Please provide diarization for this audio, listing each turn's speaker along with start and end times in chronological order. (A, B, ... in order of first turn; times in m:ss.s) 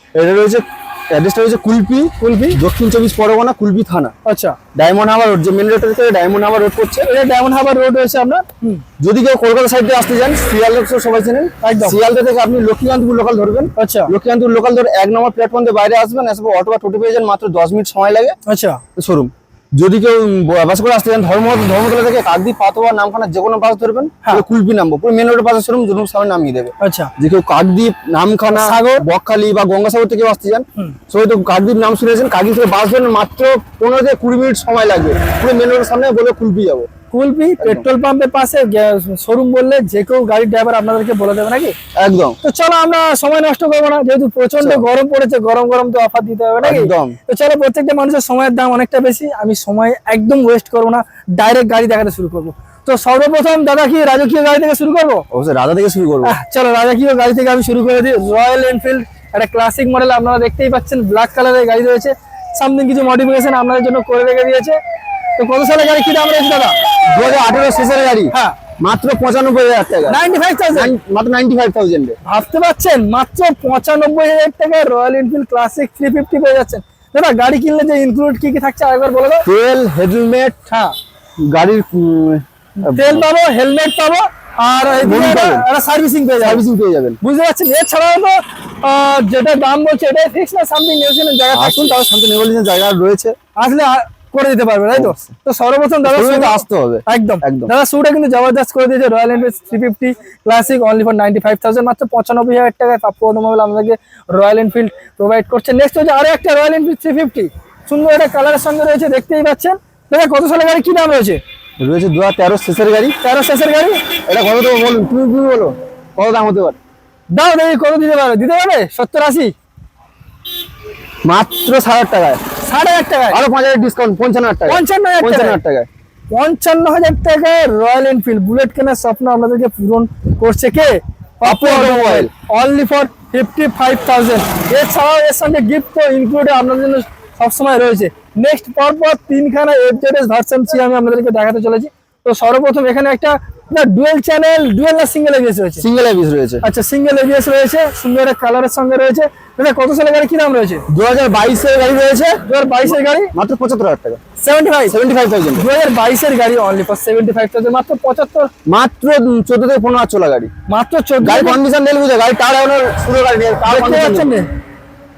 0:00.2-0:04.1 A
0:02.2-0:02.6 B
0:04.3-0:04.6 B
0:04.8-0:07.1 A
0:07.0-0:08.8 B
0:09.0-0:18.4 A
0:11.6-0:12.0 B
0:13.8-0:14.1 B
0:18.5-0:18.8 B
0:19.0-0:36.9 A
0:26.8-0:27.1 B
0:28.5-0:29.0 B
0:37.1-0:41.8 B
0:37.6-0:37.8 A
0:42.0-0:42.4 A
0:42.4-0:55.2 B
0:44.6-0:44.8 A
0:46.6-0:47.2 A
0:55.3-0:56.4 A
0:56.2-1:04.8 B
1:05.4-1:06.8 B
1:07.1-1:10.2 A
1:08.3-1:08.6 B
1:10.1-1:10.9 B
1:10.7-1:12.2 A
1:12.2-1:19.5 B
1:19.5-1:20.6 A
1:20.7-1:21.0 B
1:21.4-1:23.2 A
1:22.8-1:26.6 B
1:24.9-1:25.7 A
1:26.4-1:27.2 A
1:27.2-1:32.0 B
1:31.5-1:33.4 A
1:33.6-1:51.4 B
1:34.9-1:35.3 A
1:36.0-1:37.7 A
1:51.8-1:53.2 A
1:53.2-1:54.0 B
1:54.3-1:56.8 A
1:57.3-1:59.5 B
2:01.2-2:02.4 A
2:02.6-2:03.4 B
2:03.3-2:05.9 A
2:04.7-2:05.6 B
2:06.3-2:25.8 B
2:11.4-2:12.3 A
2:25.8-2:26.6 A
2:26.6-2:30.9 B
2:30.9-2:34.2 A
2:32.5-2:33.3 B
2:34.4-2:35.0 B
2:34.9-2:35.7 A
2:35.6-2:38.5 B
2:38.7-2:40.5 A
2:40.7-2:41.6 B
2:41.2-2:44.4 A
2:43.6-2:44.5 B